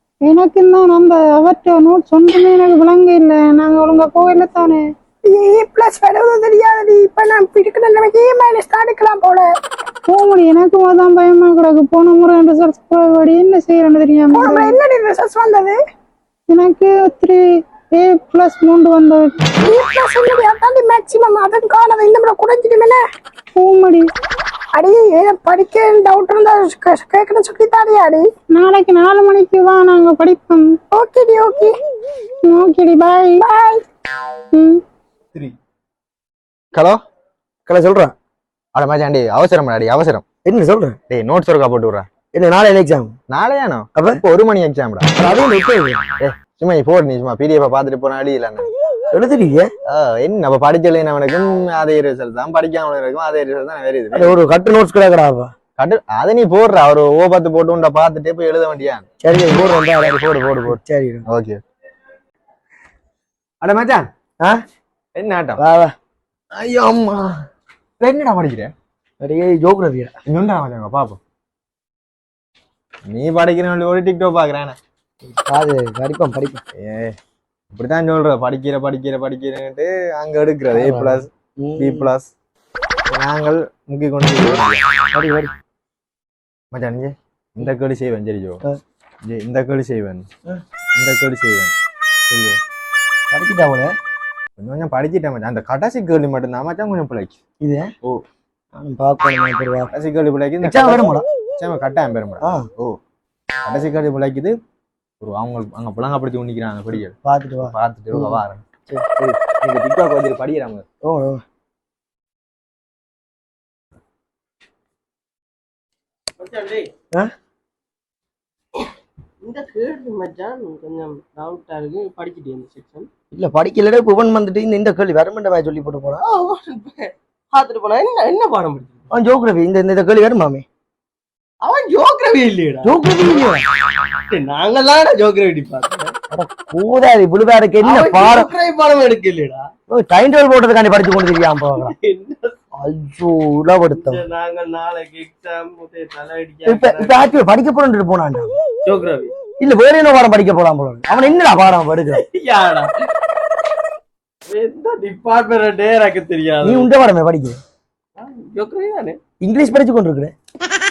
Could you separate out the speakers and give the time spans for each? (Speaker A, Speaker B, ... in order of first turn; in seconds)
Speaker A: 0.2-4.8, 10.1-14.8, 16.5-17.4, 17.9-19.3, 23.6-24.1, 28.5-30.7, 32.4-33.4, 34.5-34.8
Speaker B: 5.2-9.5, 14.3-15.8, 19.6-23.0, 24.7-28.3, 30.9-31.7, 33.4-33.8
Speaker C: 37.6-38.1, 40.4-41.0, 42.3-43.2, 45.1-46.0, 49.1-49.7, 54.1-55.5, 59.2-61.2, 65.6-65.9, 69.2-70.1, 75.2-76.6, 80.7-82.1, 85.1-85.5, 93.3-93.9, 97.6-97.9, 98.8-99.9, 100.6-101.2, 102.4-102.7, 107.2-109.4, 111.0-111.4, 123.3-126.2, 129.1-130.7, 132.8-133.6, 136.3-138.5, 139.9-141.9, 142.8-144.2, 146.6-148.5, 149.6-152.2, 156.6-157.6, 159.4-160.3
Speaker D: 38.7-40.2, 41.1-42.1, 43.3-45.1, 46.2-48.7, 49.8-54.4, 55.8-59.0, 59.9-61.6, 63.6-64.1, 65.2-65.6, 66.5-67.4, 68.0-68.7, 70.3-71.2, 73.1-74.8, 76.8-77.2, 77.7-82.3, 83.1-84.8, 86.7-88.6, 89.2-90.2, 91.0-91.7, 92.3-92.6, 94.6-97.3, 99.9-103.0, 103.7-104.5, 105.2-108.6, 109.6-110.8
Speaker E: 116.4-116.9, 119.4-123.1, 126.2-129.1, 131.6-133.0, 134.3-136.1, 137.8-139.7, 141.8-142.5, 143.9-147.2, 148.8-149.3, 152.1-152.9, 154.5-156.9, 158.2-159.2